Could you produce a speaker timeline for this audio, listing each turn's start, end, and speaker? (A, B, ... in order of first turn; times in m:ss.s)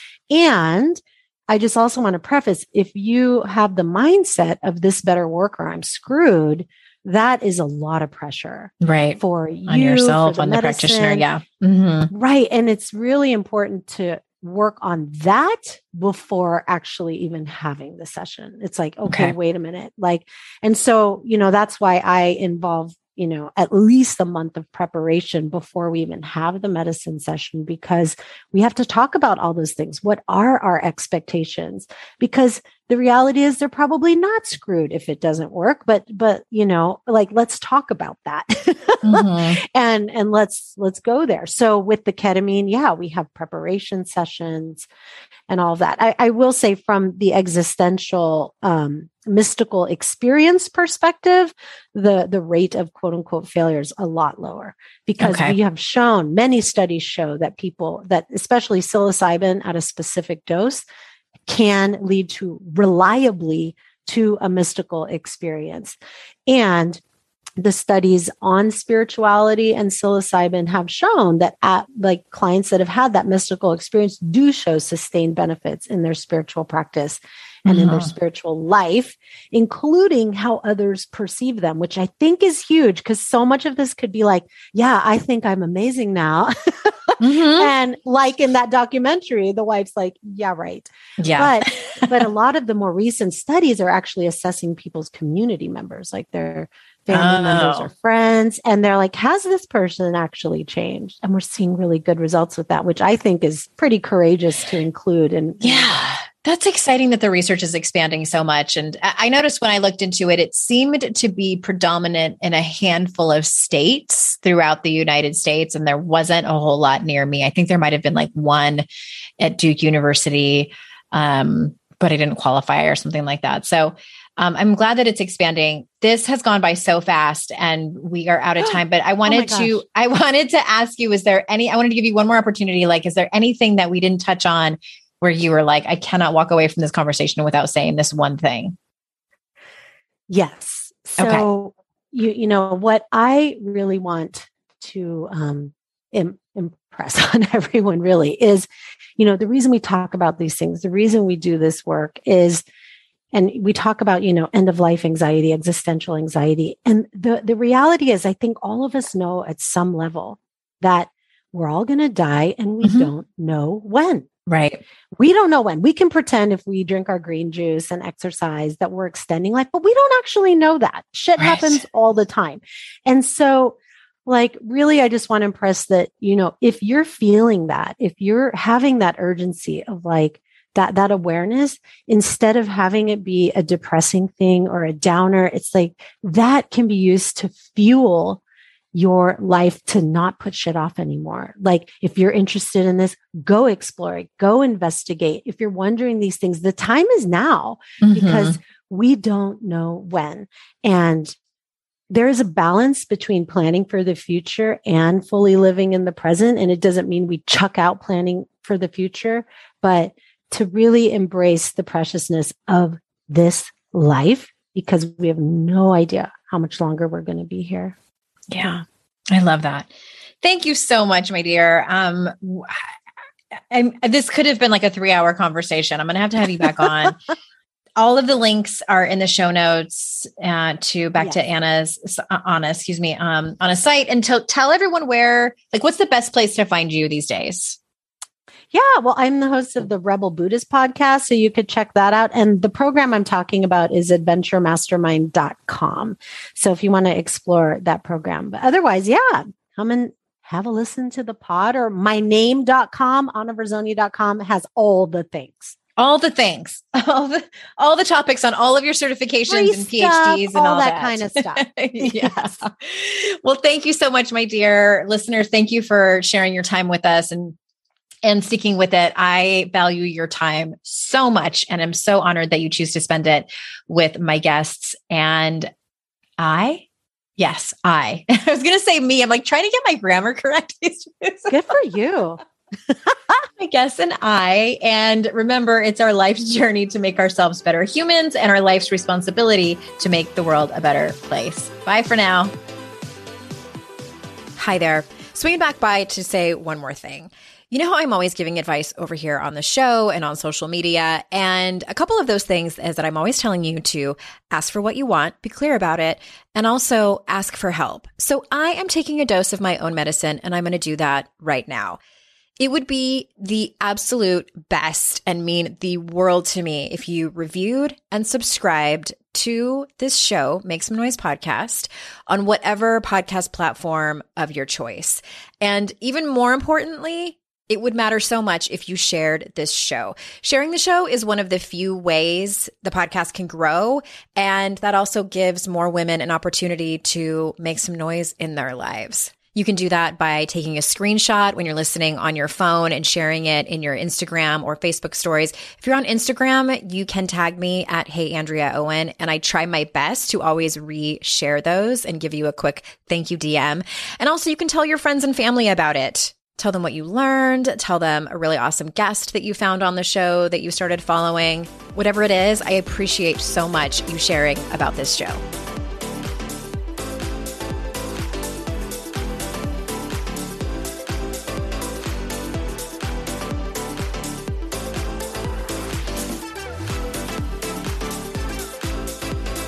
0:00.3-0:11.2 A
0:08.8-0:12.1 B
0:12.1-0:44.9 A
0:19.0-0:19.4 B
0:39.0-0:39.6 B
0:45.5-1:00.8 A
0:55.2-0:55.5 B
1:01.5-1:07.0 A
1:07.6-1:46.0 A
1:17.6-1:18.1 B
1:27.2-1:27.7 B
1:31.2-1:32.2 B
1:37.1-1:37.9 B
1:45.6-1:58.8 B
1:59.4-2:18.7 B
2:08.6-2:09.8 A
2:20.3-2:32.6 A
2:21.2-2:21.4 B
2:33.3-2:44.3 A
2:42.8-2:43.1 B
2:44.5-2:44.8 B
2:45.2-3:08.4 A
2:51.4-2:51.8 B
3:08.9-3:21.3 A
3:18.0-3:18.6 B
3:22.1-3:37.9 A
3:38.5-3:39.9 B
3:40.4-3:42.8 B
3:43.7-3:47.2 B
3:48.0-3:57.8 B
3:58.7-4:15.8 A
4:16.0-4:27.6 B
4:19.5-4:22.6 A
4:28.2-4:35.7 B
4:36.4-4:36.8 B
4:37.4-4:41.6 B
4:41.5-4:42.4 A
4:43.6-4:52.5 B
4:54.6-5:12.0 C
5:12.6-6:05.4 C